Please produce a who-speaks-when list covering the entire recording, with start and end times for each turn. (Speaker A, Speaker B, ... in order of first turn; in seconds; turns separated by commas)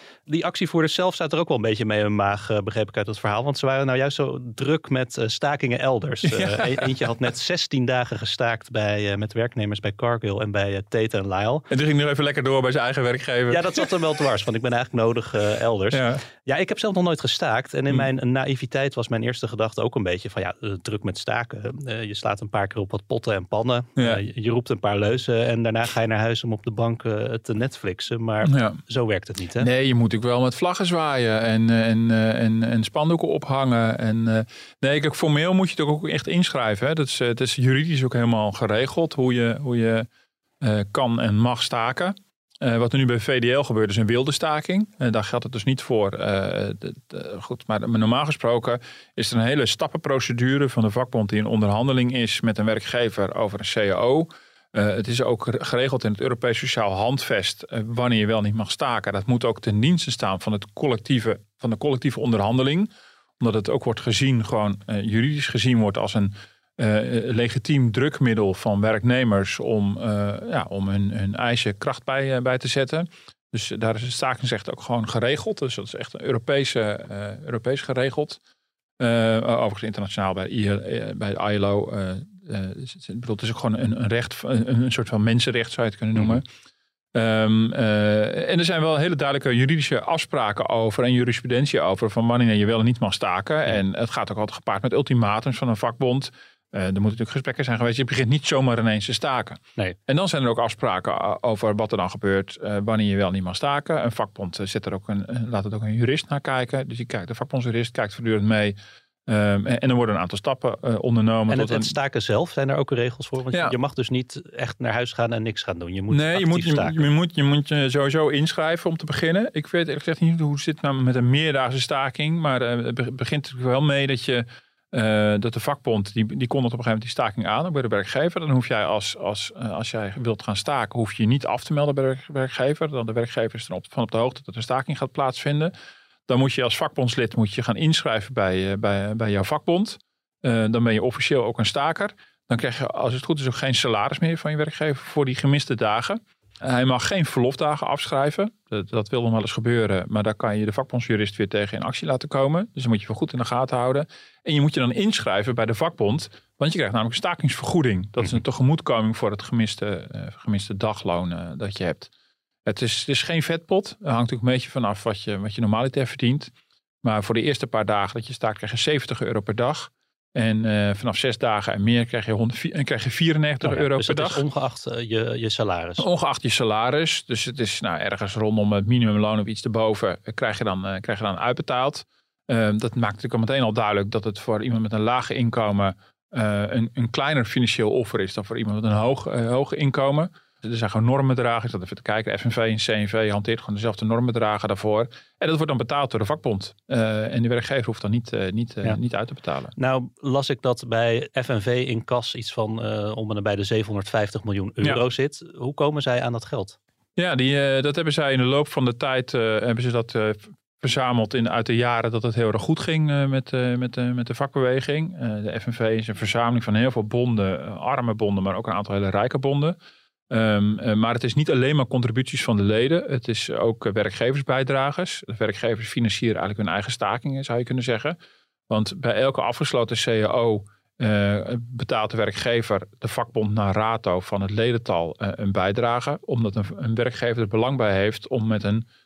Speaker A: 0.3-11.7, Speaker B: 6.2-7.1, Speaker B: 11.7-13.9, Speaker A: 13.5-29.7, Speaker B: 15.9-16.2, Speaker B: 24.0-24.2, Speaker B: 28.4-28.8, Speaker B: 29.6-40.1, Speaker B: 40.6-78.4, Speaker B: 79.0-86.5, Speaker B: 87.1-111.9, Speaker A: 111.5-117.0, Speaker B: 116.1-135.7, Speaker B: 136.3-162.1, Speaker B: 162.7-174.4, Speaker A: 173.6-176.1, Speaker B: 176.0-199.7, Speaker A: 199.8-206.8, Speaker B: 207.2-219.8, Speaker B: 220.3-228.2, Speaker B: 228.7-238.8